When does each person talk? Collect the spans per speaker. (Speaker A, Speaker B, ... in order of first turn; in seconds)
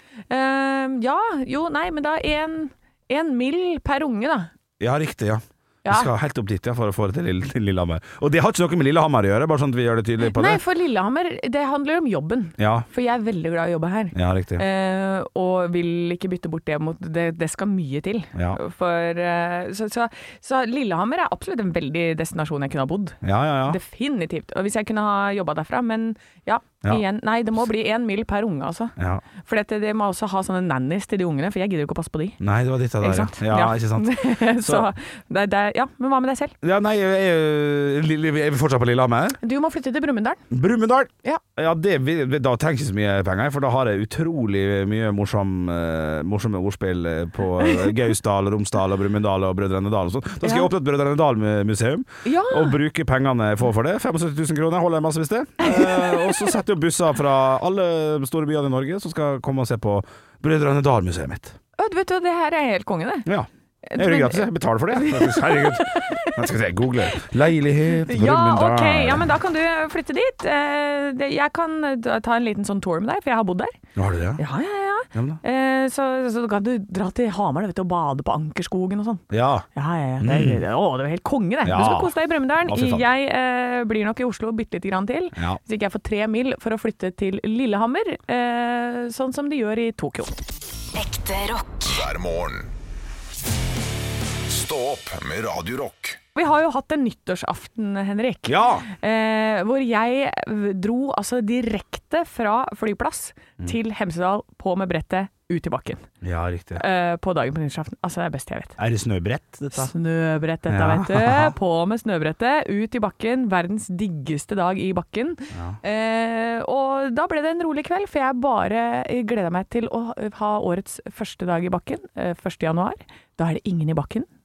Speaker A: 0.3-4.5, 5.8-6.1, 10.2-32.4, 33.0-36.5, 39.4-40.4, 47.6-48.0, 50.4-50.7, 52.2-52.8, 55.6-56.5, 61.8-63.3, 63.9-66.5, 68.0-73.8, 74.4-90.4, 96.3-106.1, 106.8-108.8, 109.7-124.3
Speaker B: 4.8-10.6, 12.6-12.9, 14.1-14.6, 18.3-18.6, 23.2-23.8, 29.0-29.2, 32.4-34.9, 36.6-39.4, 40.5-61.6, 63.2-69.3, 74.0-74.4, 75.1-75.4, 79.3-79.6, 80.2-80.6, 81.6-82.1, 82.6-83.1, 98.5-98.8, 106.2-106.8, 108.8-109.9, 110.7-111.5, 115.5-115.8
Speaker C: 90.9-92.7, 94.5-96.2